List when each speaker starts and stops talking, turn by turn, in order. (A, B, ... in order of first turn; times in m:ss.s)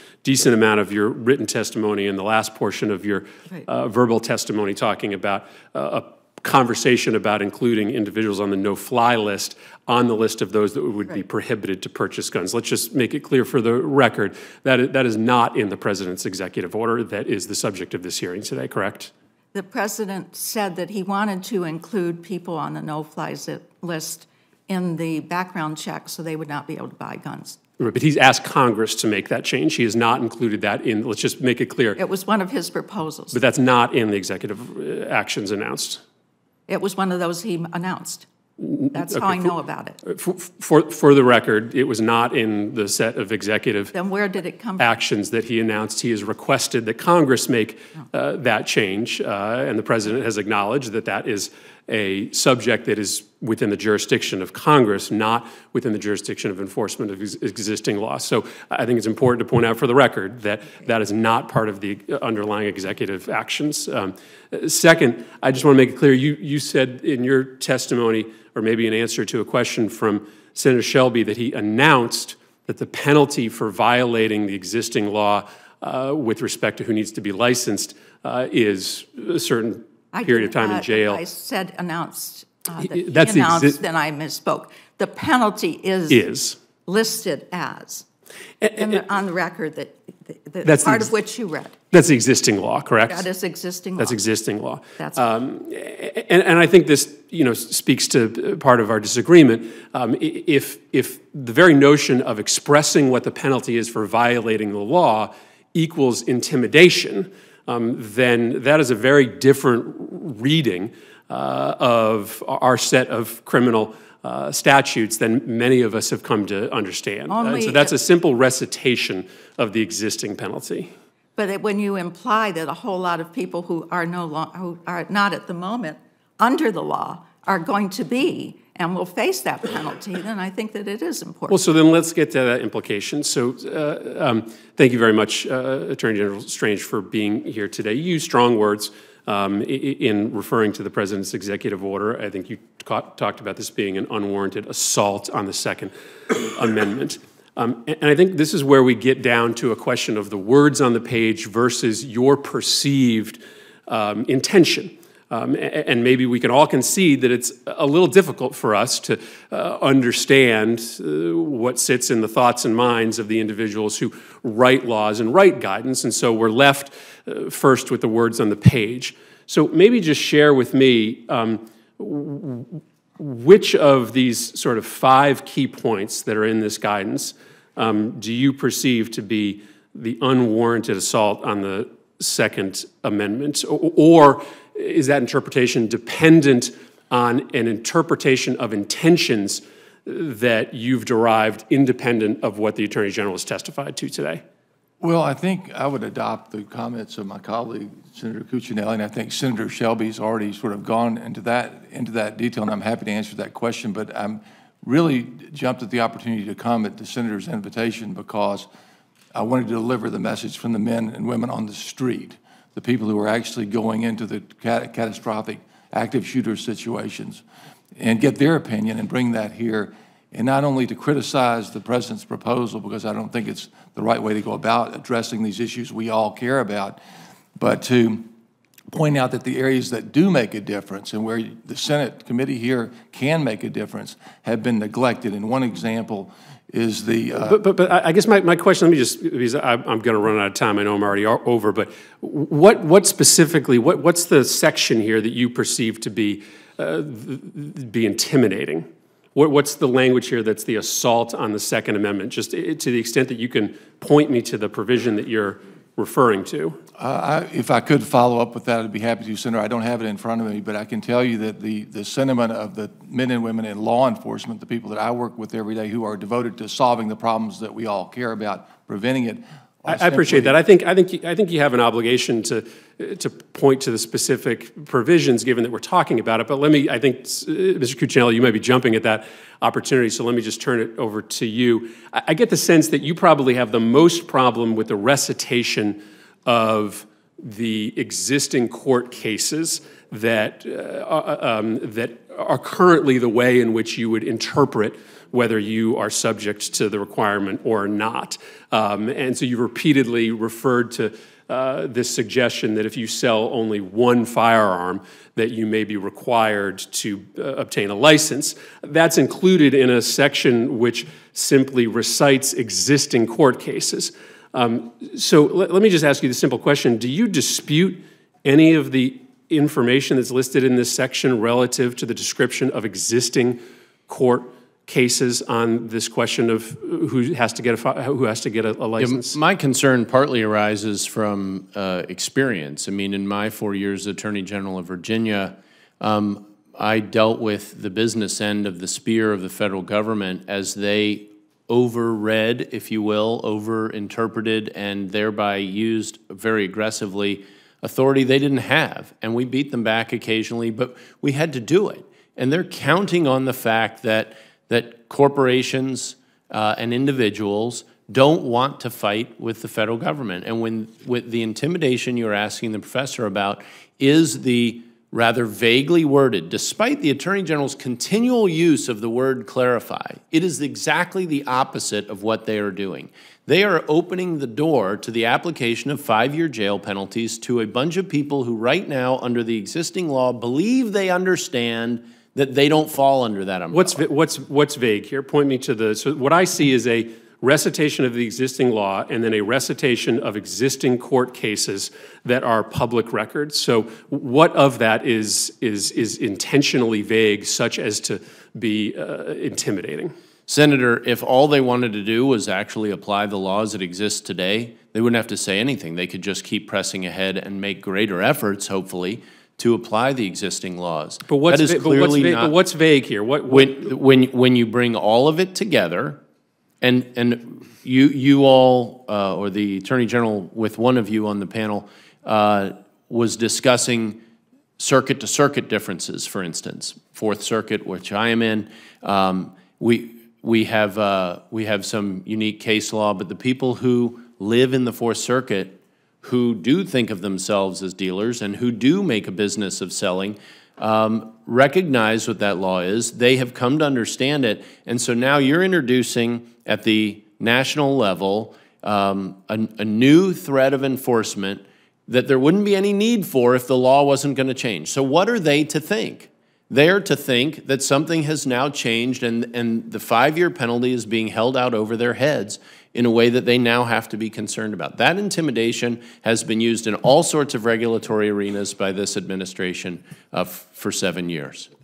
0:00.2-0:19.1 A
0:19.5-0:27.6 B
0:27.8-0:32.0 A
0:32.0-0:33.4 B
0:33.3-0:36.0 A
0:36.7-0:38.3 B
0:38.6-0:43.9 A
0:38.9-0:40.0 B
0:43.9-0:44.9 B
0:44.8-1:21.2 A
1:20.1-1:26.2 B
1:22.8-1:23.8 A
1:26.1-1:26.6 A
1:26.8-1:28.0 B
1:28.6-1:29.0 A
1:28.7-1:31.8 B
1:30.6-1:31.2 A
1:31.9-1:33.3 A
1:33.1-1:34.2 B
1:34.0-2:00.9 A
1:35.0-1:35.2 B
1:57.3-1:58.0 B
2:01.4-2:11.6 B
2:11.5-3:14.4 A
3:15.0-3:28.7 C
3:29.3-3:37.4 C
3:38.0-3:47.0 C
3:47.5-3:48.3 C
3:48.9-3:57.6 C
3:57.4-4:16.8 A
4:17.0-4:30.6 C
4:29.9-5:29.4 A
5:29.0-6:24.0 D
6:23.7-6:40.1 A
6:40.5-6:52.6 D
6:51.3-6:53.9 A
6:53.5-6:56.2 D
6:56.8-7:04.2 D
7:04.8-7:51.7 D